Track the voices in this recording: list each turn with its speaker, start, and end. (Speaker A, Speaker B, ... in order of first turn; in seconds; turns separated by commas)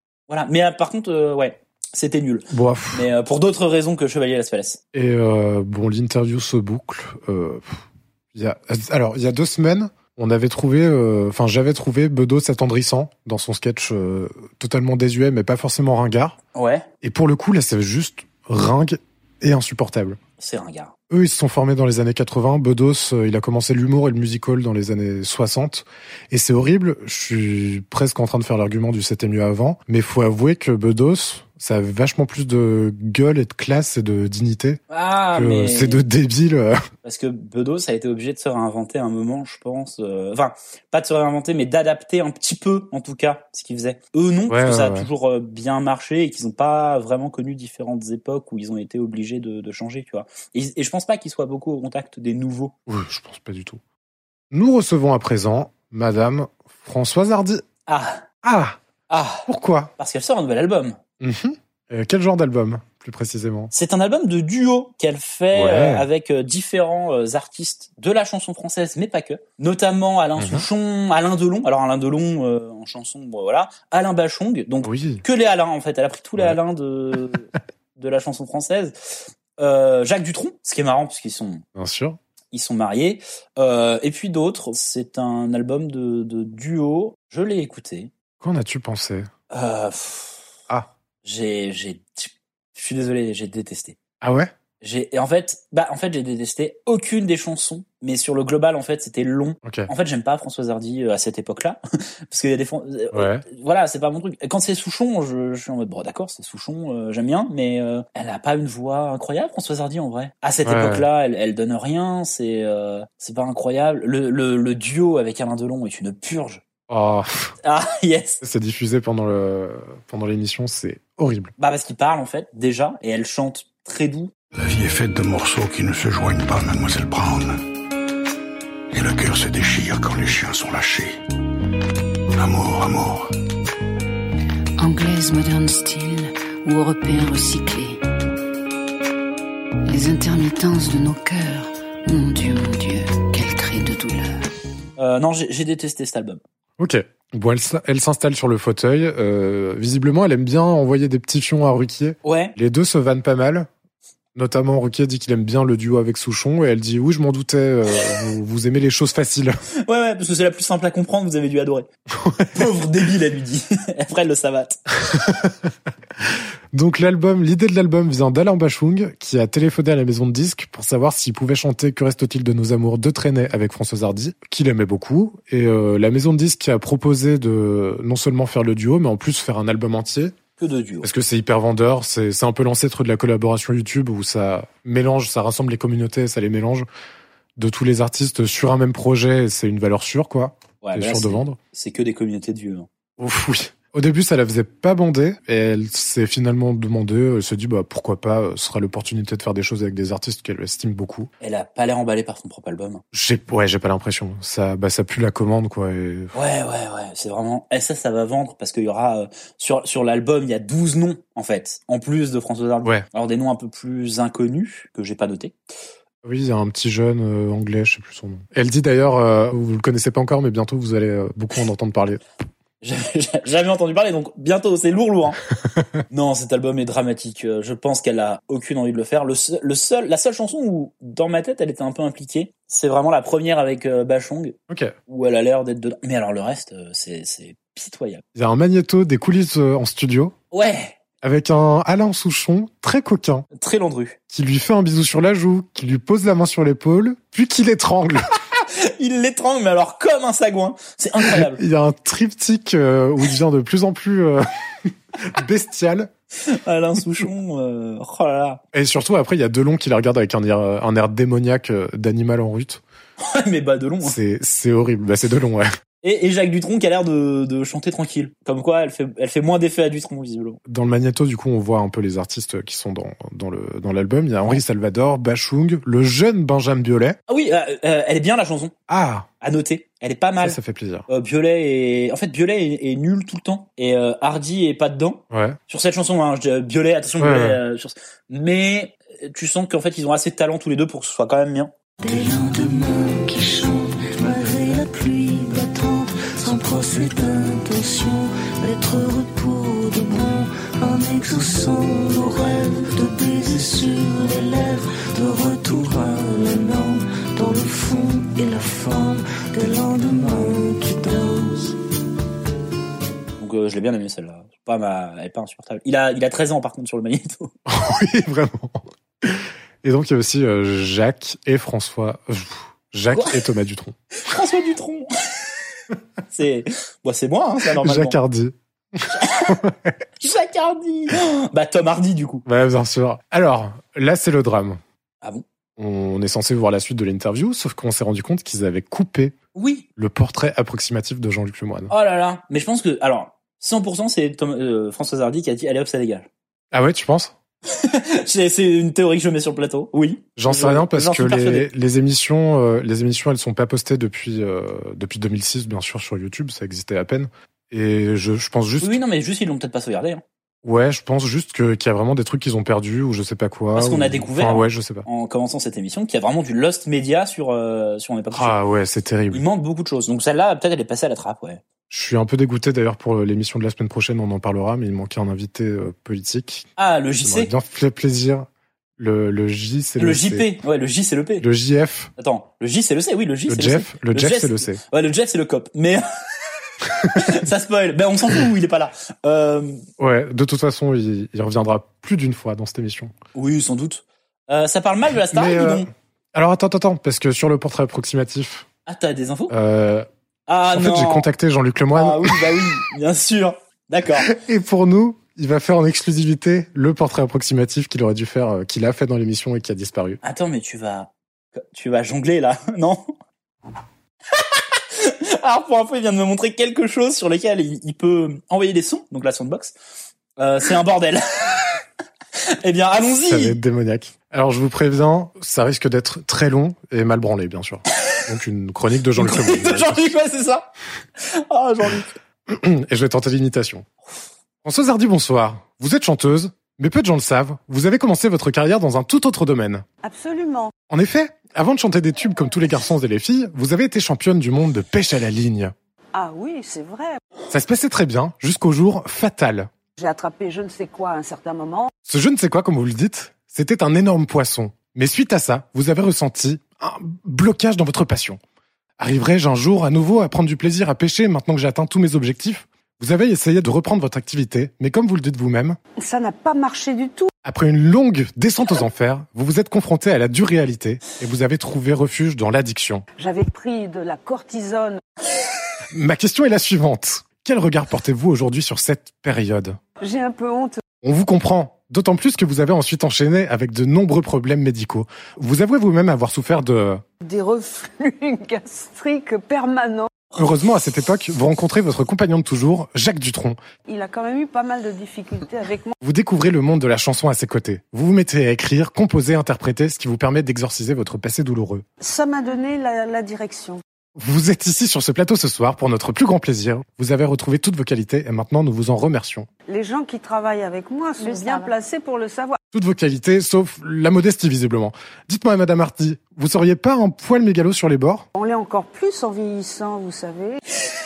Speaker A: 0.3-4.8, Speaker B: 2.5-3.1, Speaker B: 4.9-16.4, Speaker A: 16.6-16.9, Speaker B: 17.0-20.2, Speaker A: 20.4-20.9, Speaker B: 21.1-34.8, Speaker A: 34.9-36.0, Speaker B: 35.3-36.8, Speaker A: 37.0-52.7, Speaker B: 44.5-45.1, Speaker B: 52.9-53.8, Speaker B: 54.5-57.6, Speaker A: 57.9-58.2, Speaker B: 58.4-58.8, Speaker A: 59.1-59.5, Speaker B: 59.5-59.9, Speaker A: 60.0-61.0, Speaker B: 61.2-63.7, Speaker A: 63.7-78.9, Speaker B: 65.5-66.1, Speaker B: 70.4-70.7, Speaker B: 74.8-75.2, Speaker A: 79.6-81.6, Speaker B: 81.8-82.2, Speaker A: 82.5-88.1, Speaker B: 88.4-89.3, Speaker A: 89.5-90.5, Speaker A: 91.2-94.0, Speaker B: 94.2-94.5, Speaker A: 94.8-101.8, Speaker B: 99.6-99.9, Speaker A: 102.3-116.6, Speaker B: 103.1-103.4, Speaker B: 110.7-111.1, Speaker B: 116.9-117.5, Speaker A: 117.7-118.4, Speaker B: 118.4-121.5, Speaker A: 121.6-124.3, Speaker C: 124.5-127.6, Speaker C: 128.9-131.2, Speaker C: 132.4-133.3, Speaker D: 134.8-138.0, Speaker D: 139.9-144.4, Speaker A: 145.0-146.4, Speaker B: 146.8-153.7, Speaker A: 152.2-152.5, Speaker B: 154.3-159.6, Speaker A: 159.9-161.9, Speaker B: 162.2-162.7, Speaker A: 162.6-164.8, Speaker B: 165.1-165.7, Speaker B: 166.3-180.3, Speaker A: 180.6-181.1, Speaker B: 181.0-186.9, Speaker B: 187.6-191.6, Speaker A: 190.8-192.9, Speaker B: 193.2-201.3, Speaker A: 201.4-203.0, Speaker B: 203.1-206.3, Speaker A: 206.3-215.6, Speaker B: 216.2-222.2, Speaker A: 222.8-225.4, Speaker A: 226.1-234.6, Speaker B: 234.7-234.9, Speaker A: 235.1-238.2, Speaker B: 238.3-240.3, Speaker A: 240.5-241.0, Speaker B: 241.2-243.5, Speaker A: 243.6-244.2, Speaker B: 244.3-248.2, Speaker A: 248.6-251.6, Speaker B: 251.2-256.1, Speaker A: 256.5-258.6, Speaker B: 258.7-262.8, Speaker A: 263.2-264.2, Speaker B: 264.0-265.7, Speaker A: 266.0-270.6, Speaker B: 270.7-277.2, Speaker A: 277.3-278.7, Speaker B: 278.9-279.3, Speaker A: 279.4-280.6, Speaker B: 280.4-281.1, Speaker A: 281.1-291.7, Speaker B: 285.3-285.6, Speaker B: 287.2-287.6, Speaker D: 292.0-311.8, Speaker A: 313.4-317.5, Speaker B: 317.7-323.9, Speaker A: 323.1-323.4, Speaker A: 324.2-325.1, Speaker A: 326.3-328.2, Speaker B: 327.7-329.9, Speaker A: 329.2-329.6, Speaker A: 330.2-332.4, Speaker B: 332.4-334.8, Speaker B: 335.8-339.4, Speaker A: 339.6-339.9, Speaker B: 340.0-341.9, Speaker A: 341.9-346.3, Speaker B: 346.7-347.3, Speaker A: 347.7-351.7, Speaker B: 350.4-359.0, Speaker A: 358.8-360.2, Speaker B: 360.6-365.1, Speaker A: 363.8-368.6, Speaker B: 368.3-369.4, Speaker A: 369.3-371.6, Speaker B: 371.9-376.7, Speaker A: 376.8-377.5, Speaker B: 377.2-378.5, Speaker B: 379.0-380.5, Speaker A: 380.0-381.5, Speaker B: 381.4-382.1, Speaker A: 382.2-386.0, Speaker B: 383.5-384.8, Speaker B: 387.0-387.4, Speaker A: 387.1-389.8, Speaker B: 390.0-393.1, Speaker A: 393.4-395.9, Speaker B: 395.3-398.7, Speaker A: 398.9-399.5, Speaker B: 399.5-400.1, Speaker A: 400.5-401.3, Speaker B: 400.7-402.4, Speaker A: 401.9-404.3, Speaker B: 404.3-410.2, Speaker A: 410.2-413.1, Speaker A: 414.9-419.7, Speaker A: 420.4-421.7, Speaker A: 422.6-423.6, Speaker B: 423.3-430.0, Speaker A: 429.2-430.7, Speaker A: 431.2-432.1, Speaker B: 432.5-433.9, Speaker B: 434.6-439.9, Speaker E: 440.0-440.7, Speaker B: 440.9-445.7, Speaker E: 446.1-447.2, Speaker B: 447.5-449.7, Speaker E: 450.0-451.9, Speaker B: 452.1-458.4, Speaker B: 459.0-465.8, Speaker E: 466.0-467.3, Speaker B: 467.4-473.1, Speaker E: 473.2-475.0, Speaker B: 475.9-479.8, Speaker E: 480.0-480.8, Speaker B: 481.0-487.0, Speaker E: 487.2-490.1, Speaker B: 490.4-493.6, Speaker E: 493.9-495.9, Speaker B: 496.0-501.8, Speaker E: 502.0-503.8, Speaker B: 504.2-509.5, Speaker E: 509.7-512.6, Speaker B: 512.7-518.3, Speaker E: 518.4-520.6